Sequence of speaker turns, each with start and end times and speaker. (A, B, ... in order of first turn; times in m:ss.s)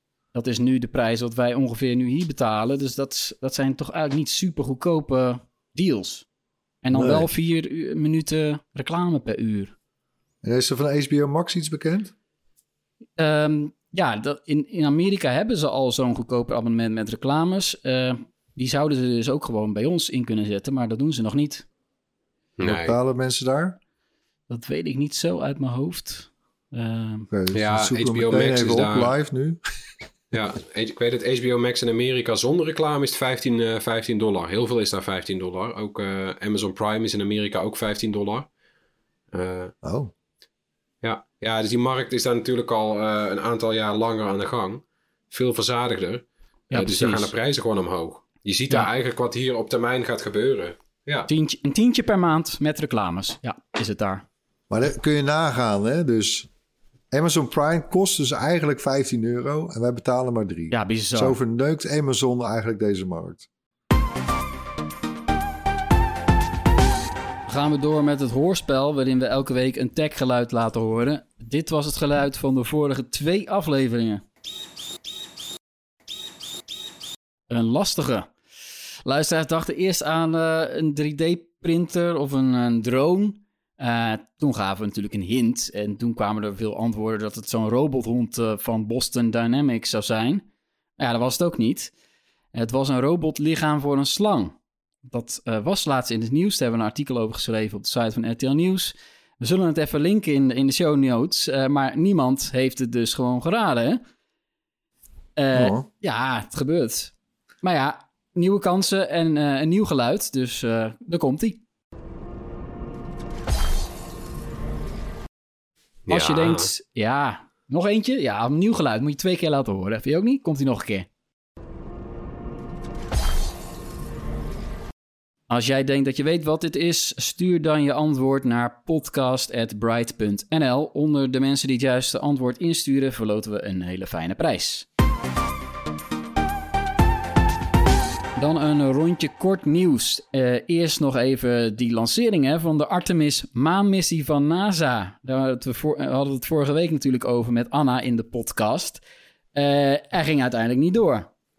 0:00.3-0:06.2 A
0:06.8-0:09.7 A
0:06.9-0:07.3 B
0:10.4-0:12.1 B
0:13.2-0:21.7 A
0:22.6-0:23.0 C
0:22.6-0:23.8 B
0:24.5-0:27.3 A
0:27.3-0:29.6 B
0:27.5-0:29.1 C
0:30.3-0:38.5 C
0:39.3-0:39.7 C
0:39.8-0:40.1 B
0:41.0-0:51.3 C
0:46.7-0:47.3 A
0:51.3-0:54.2 A
0:54.7-0:56.5 B
0:57.1-1:03.5 B
1:00.7-1:01.4 A
1:07.5-1:14.2 A
1:17.5-1:18.3 A
1:19.0-1:30.4 A
1:31.0-1:31.9 A
1:32.5-1:44.0 A
1:45.4-1:51.6 A
1:45.5-1:45.9 B
1:56.1-1:56.7 C
1:56.1-2:01.1 A
2:05.5-2:14.9 A
2:18.4-2:29.0 A
2:29.6-2:31.3 A